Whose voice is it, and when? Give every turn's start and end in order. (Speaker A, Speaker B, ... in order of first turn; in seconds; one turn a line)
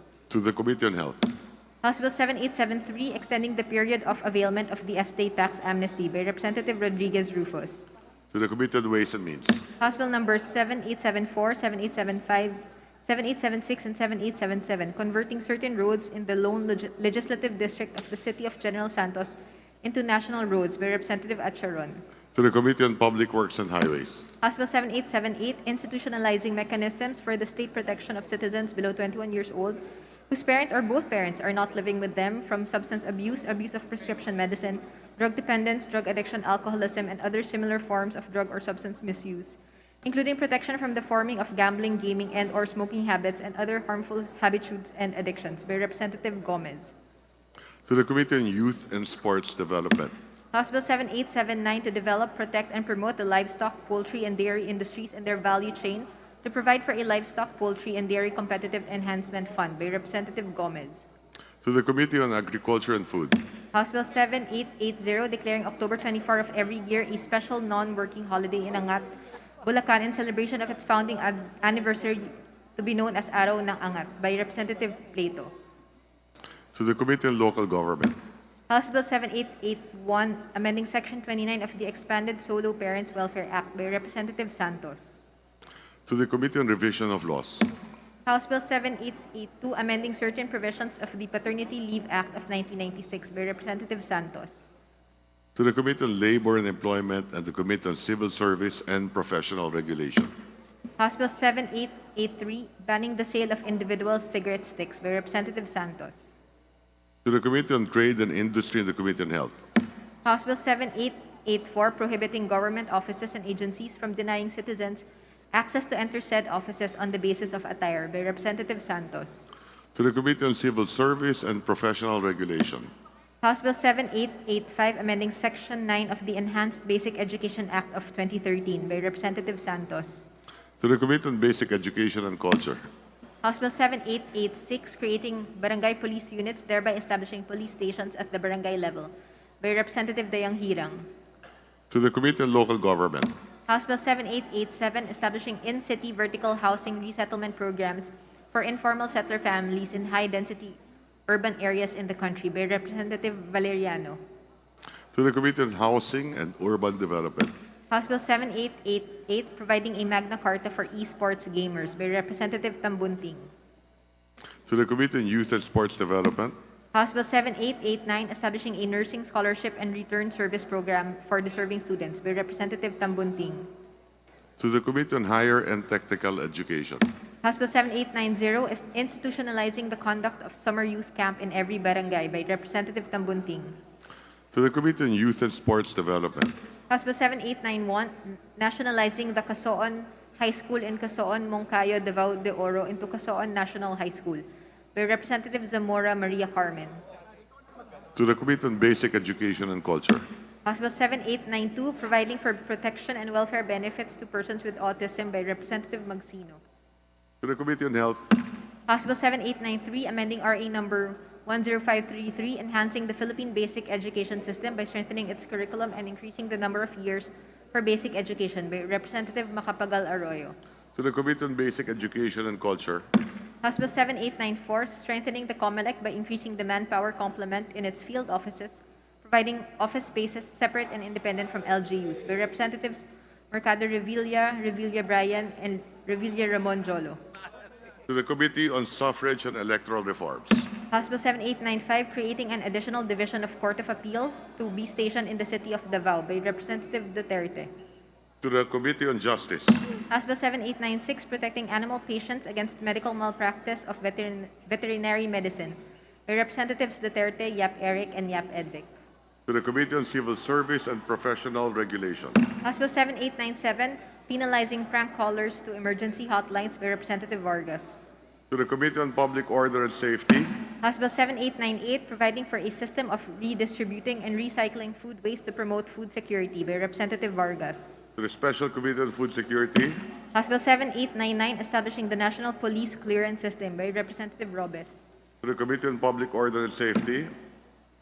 Speaker A: 0.3-1.3
Speaker B: 1.8-7.9
Speaker A: 8.3-9.7
Speaker B: 9.8-22.0
Speaker A: 22.4-24.3
Speaker B: 24.4-29.8
Speaker B: 30.3-46.9
Speaker A: 47.9-50.1
Speaker B: 50.5-61.1
Speaker A: 61.6-63.4
Speaker B: 63.7-69.1
Speaker B: 69.6-75.5
Speaker A: 76.7-78.2
Speaker B: 78.7-85.2
Speaker A: 86.1-87.7
Speaker B: 88.3-94.7
Speaker A: 95.6-100.3
Speaker B: 101.0-106.3
Speaker A: 107.2-109.6
Speaker B: 110.2-119.4
Speaker A: 120.0-122.9
Speaker B: 123.4-130.3
Speaker A: 130.8-132.8
Speaker B: 133.4-139.1
Speaker B: 139.6-141.1
Speaker A: 141.9-143.3
Speaker B: 143.7-150.8
Speaker B: 151.3-154.2
Speaker A: 155.1-157.5
Speaker B: 157.9-163.5
Speaker A: 164.7-166.6
Speaker B: 166.9-173.7
Speaker A: 174.6-177.1
Speaker B: 177.4-183.8
Speaker A: 184.5-186.6
Speaker B: 186.9-194.4
Speaker B: 194.9-197.0
Speaker A: 198.2-200.2
Speaker B: 200.7-206.6
Speaker A: 207.4-208.3
Speaker B: 208.9-220.5
Speaker A: 220.9-223.0
Speaker B: 223.6-237.2
Speaker A: 238.1-240.7
Speaker B: 240.9-247.7
Speaker A: 248.4-249.8
Speaker B: 250.1-258.9
Speaker A: 259.5-262.4
Speaker B: 262.6-268.1
Speaker A: 268.5-270.6
Speaker B: 270.8-277.8
Speaker A: 278.2-280.0
Speaker B: 280.3-285.0
Speaker A: 285.4-287.3